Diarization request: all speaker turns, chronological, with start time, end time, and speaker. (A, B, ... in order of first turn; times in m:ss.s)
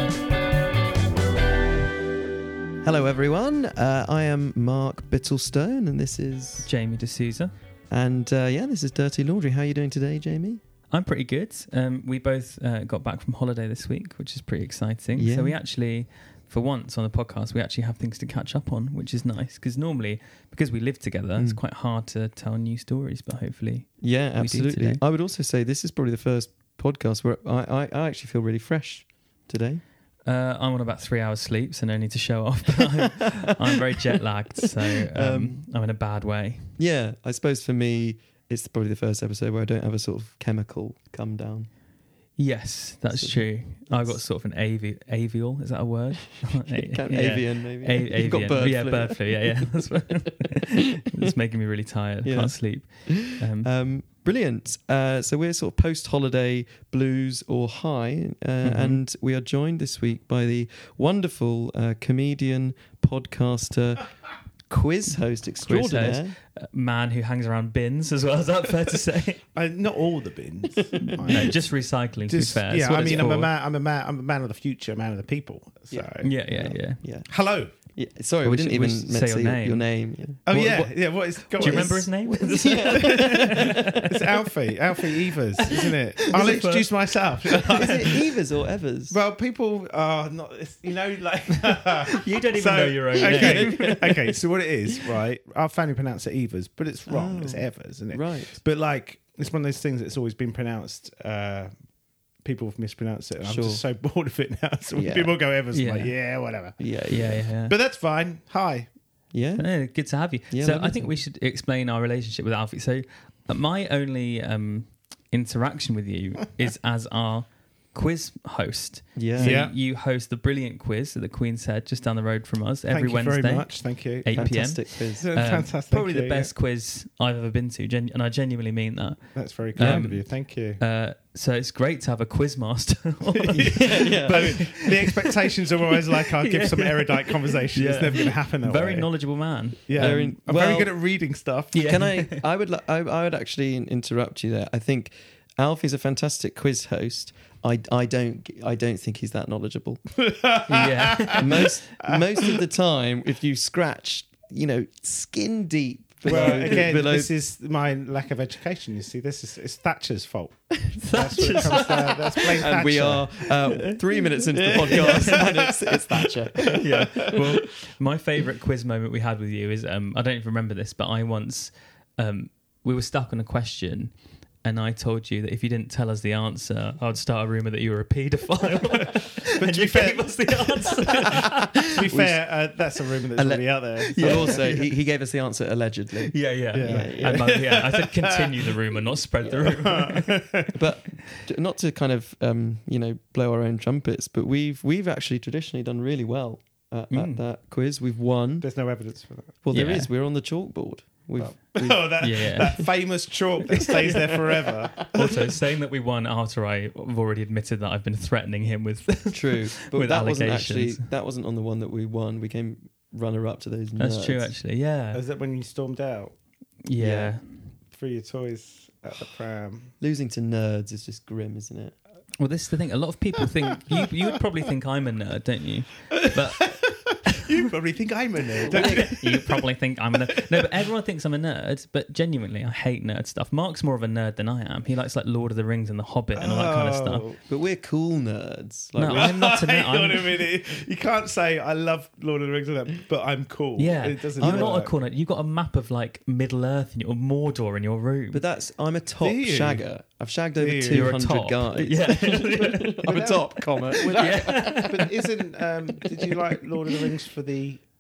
0:02.8-0:06.7 A
0:06.6-0:07.5 B
0:07.9-0:10.6 A
0:10.9-0:25.0 B
0:15.2-0:15.6 A
0:24.0-0:29.8 A
0:30.2-0:36.8 B
0:32.9-0:33.8 A
0:34.6-0:35.6 A
0:36.8-0:41.7 A
0:42.4-0:53.7 B
0:43.1-0:44.2 A
0:46.7-0:51.2 A
0:52.2-1:04.0 A
0:58.6-0:59.0 B
1:04.7-1:06.4 A
1:05.6-1:09.4 B
1:09.5-1:11.6 C
1:10.7-1:11.5 A
1:11.3-1:13.5 B
1:12.3-1:16.3 C
1:13.0-1:13.3 A
1:15.9-1:17.3 A
1:16.2-1:17.0 B
1:17.3-1:17.7 C
1:17.9-1:20.9 A
1:18.4-1:19.8 B
1:20.4-1:22.1 C
1:21.6-1:24.1 B
1:21.6-1:24.2 A
1:22.8-1:28.2 C
1:25.7-1:28.1 B
1:27.6-1:29.2 A
1:29.1-1:41.7 C
1:32.1-1:33.9 B
1:33.2-1:34.4 A
1:37.1-1:38.5 A
1:42.4-1:46.8 C
1:43.4-1:43.8 A
1:44.9-1:45.4 A
1:45.7-1:46.1 B
1:46.8-1:47.5 A
1:47.1-1:47.7 B
1:47.7-1:48.9 C
1:49.3-1:49.7 A
1:49.6-2:09.2 B
1:50.5-1:51.2 A
1:59.1-1:59.6 A
1:59.4-1:59.7 C
2:02.9-2:06.5 C
2:04.3-2:05.3 A
2:09.3-2:10.8 C
2:09.7-2:10.2 B
2:09.8-2:10.0 A
2:10.8-2:15.3 B
2:13.4-2:19.1 C
2:13.6-2:14.6 A
2:16.2-2:19.8 B
2:19.9-2:21.8 C
2:19.9-2:20.9 A
2:21.7-2:22.4 B
2:21.7-2:30.0 A
2:30.2-2:32.6 C
2:30.7-2:31.7 B
2:31.3-2:37.3 A
2:36.2-2:43.4 C
2:36.4-2:36.8 B
2:41.0-2:42.4 B
2:41.4-2:47.5 A
2:43.7-2:45.5 B
2:44.5-2:47.4 C
2:46.6-3:01.8 B
2:59.5-3:00.9 C
3:01.3-3:02.4 A
3:01.8-3:04.8 C
3:03.4-3:07.6 A
3:04.1-3:04.8 B
3:06.3-3:10.4 B
3:06.7-3:08.7 C
3:09.6-3:10.7 C
3:10.7-3:18.7 A
3:17.1-3:17.4 B
3:18.6-3:19.6 C
3:19.6-3:22.8 A
3:19.7-3:20.1 B
3:21.4-3:25.4 C
3:22.2-3:22.9 B
3:23.8-3:24.4 B
3:23.9-3:25.3 A
3:25.1-3:31.1 B
3:29.3-3:34.5 A
3:34.0-3:35.2 B
3:35.1-3:36.3 C
3:36.8-3:37.4 B
3:37.0-3:37.3 A
3:37.9-3:39.9 C
3:40.0-3:42.0 A
3:42.4-3:46.8 B
3:46.1-3:49.6 C
3:48.6-3:49.2 A
3:48.7-3:57.2 B
3:50.3-3:50.6 C
3:56.3-3:57.4 C
3:57.5-3:59.3 A
3:59.0-4:00.3 B
3:59.1-4:04.9 C
4:03.8-4:08.4 B
4:04.4-4:04.8 A
4:08.3-4:14.9 A
4:09.2-4:09.8 C
4:10.6-4:11.2 C
4:10.9-4:13.0 B
4:12.8-4:17.8 C
4:14.1-4:15.1 B
4:16.1-4:16.5 A